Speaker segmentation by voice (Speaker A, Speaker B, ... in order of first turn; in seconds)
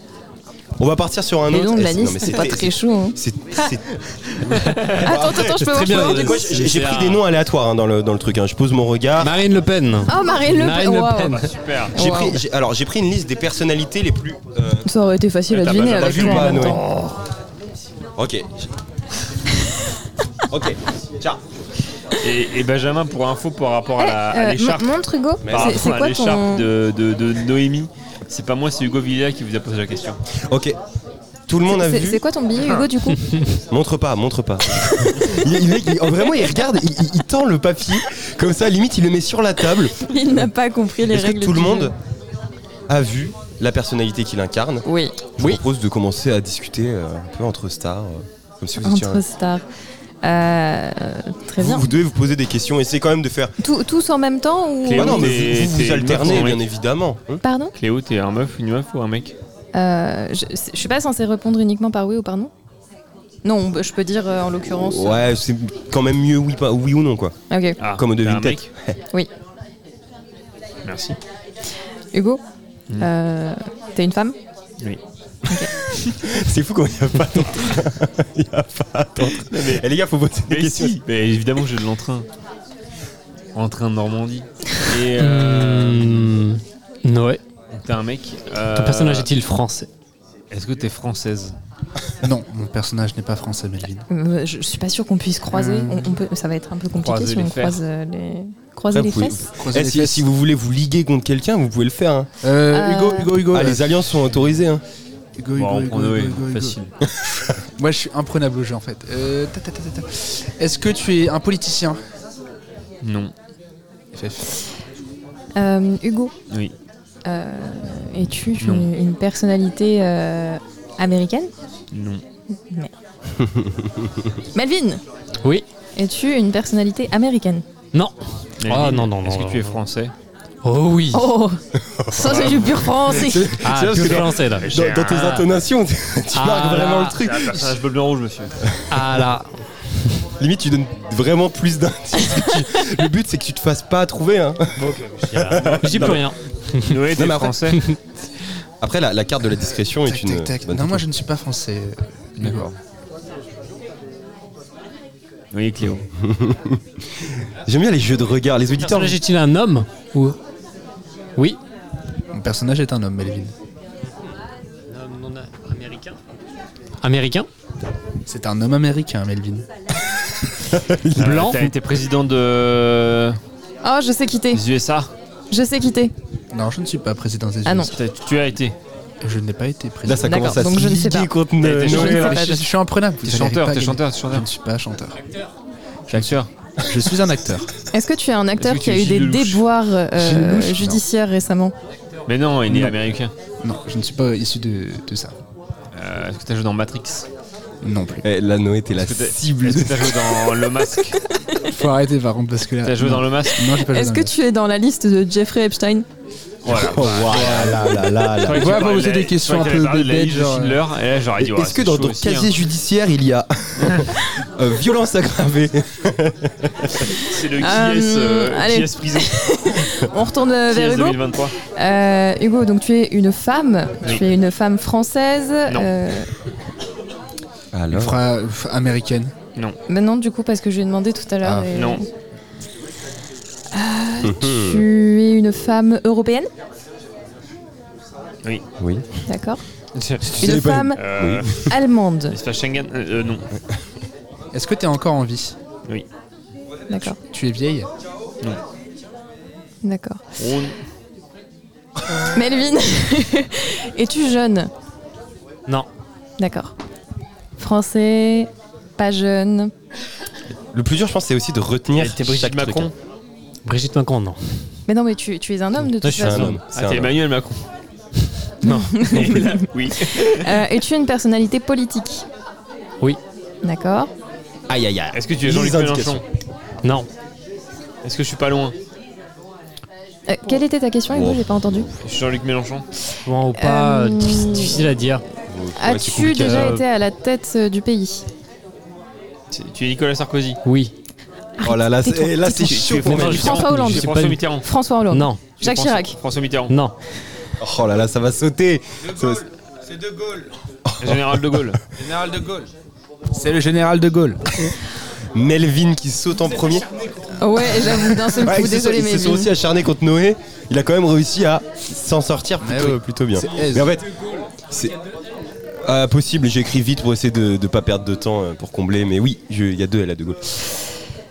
Speaker A: 0.8-9.3, 11.9-14.9, 15.7-16.8, 18.2-18.7, 20.5-21.4, 25.4-25.9, 30.4-30.8, 31.5-32.2, 33.7-40.0, 41.0-41.9, 42.9-44.9, 45.4-49.2, 51.6-53.5, 54.9-57.4, 64.8-67.3, 67.9-69.0, 76.2-81.0, 98.9-102.3, 103.5-104.8, 123.5-124.1, 131.9-137.8, 138.6-139.2, 140.4-146.2, 147.1-147.7, 148.8-151.1, 156.2-159.2, 170.7-171.5, 180.0-182.3, 198.2-200.4, 206.7-208.9, 211.4-217.1, 227.7-228.2, 234.2-234.8, 240.2-241.5, 260.7-262.9, 266.1-267.1, 274.7-276.2, 281.1-281.9, 285.5-286.8, 291.6-293.5, 297.6-299.5, 300.9-301.7, 305.3-306.9, 307.8-314.1, 314.7-314.9, 315.8-320.4
Speaker B: 1.5-3.2, 5.0-6.5, 10.1-11.4, 11.9-12.4, 14.8-16.8, 24.0-26.7, 31.7-33.3, 40.0-41.9, 44.9-45.1, 48.8-49.6, 50.2-51.9, 53.6-55.7, 57.4-57.7, 59.7-62.5, 63.4-65.2, 67.5-67.8, 72.1-72.4, 73.0-74.3, 94.1-99.4, 102.7-103.4, 115.5-116.3, 117.2-121.5, 124.5-125.0, 126.0-127.6, 131.1-133.6, 173.8-174.6, 175.5-176.1, 177.6-177.9, 180.2-181.3, 181.8-182.7, 187.9-191.7, 203.7-206.1, 217.6-221.2, 221.7-226.3, 229.9-232.1, 233.7-236.5, 239.3-239.6, 240.4-241.0, 241.7-242.4, 246.9-247.2, 249.8-250.2, 252.2-254.7, 256.4-256.7, 257.6-259.7, 264.9-266.6, 268.6-272.2, 273.6-274.1, 280.3-281.9, 283.6-284.8, 285.8-288.2, 291.6-296.1, 307.4-309.5
Speaker C: 4.7-4.9, 11.3-11.9, 15.5-16.8, 22.2-24.9, 25.5-30.2, 54.8-56.6, 57.8-59.3, 67.8-68.7, 70.8-71.2, 79.2-79.8, 80.5-82.3, 83.5-86.3, 87.7-89.3, 90.5-91.5, 96.9-97.8, 105.5-106.9, 113.0-113.3, 118.6-118.9, 121.9-122.2, 128.6-130.1, 132.2-133.3, 133.9-135.5, 137.0-138.6, 145.6-146.2, 146.8-147.8, 152.4-152.7, 155.5-156.1, 171.2-173.4, 174.5-175.1, 177.9-178.8, 181.6-182.4, 183.2-184.5, 186.1-186.5, 188.6-189.6, 192.3-193.3, 195.9-197.3, 198.9-201.2, 202.8-203.7, 206.6-212.5, 213.8-214.1, 217.1-219.4, 220.7-221.5, 231.7-232.0, 239.9-241.7, 242.3-243.5, 250.4-250.8, 261.9-262.9, 266.7-267.6, 269.2-270.6, 275.1-276.2, 278.0-278.7, 282.0-282.8, 289.5-290.6, 292.6-294.7, 295.6-296.7, 301.0-301.8
Speaker D: 5.6-7.2, 9.2-11.5, 85.2-87.4, 88.7-89.9, 127.9-129.8, 130.6-131.3, 133.6-134.7, 136.3-137.2, 138.9-139.6, 144.8-147.0, 158.8-160.4, 164.9-166.2, 167.0-167.5, 171.2-171.7, 185.2-185.5, 263.6-264.6, 265.9-266.6, 268.6-269.6, 283.2-285.2, 286.2-286.8, 290.6-290.9, 293.1-294.4, 295.1-295.4, 296.7-296.9
Speaker E: 92.2-94.0, 95.5-96.1, 99.6-100.2, 102.4-103.9, 105.4-106.8, 107.8-112.0, 114.1-114.5, 150.1-152.7, 162.3-163.5, 168.3-169.7, 176.5-177.9, 179.2-180.5, 181.9-185.2, 186.1-187.7, 190.1-191.0, 192.7-192.9, 193.6-195.3, 197.8-198.2, 201.7-204.3, 207.0-210.8, 227.9-229.3, 231.4-231.7, 244.5-245.5, 247.3-247.9, 302.0-302.7, 303.3-304.6, 312.6-313.9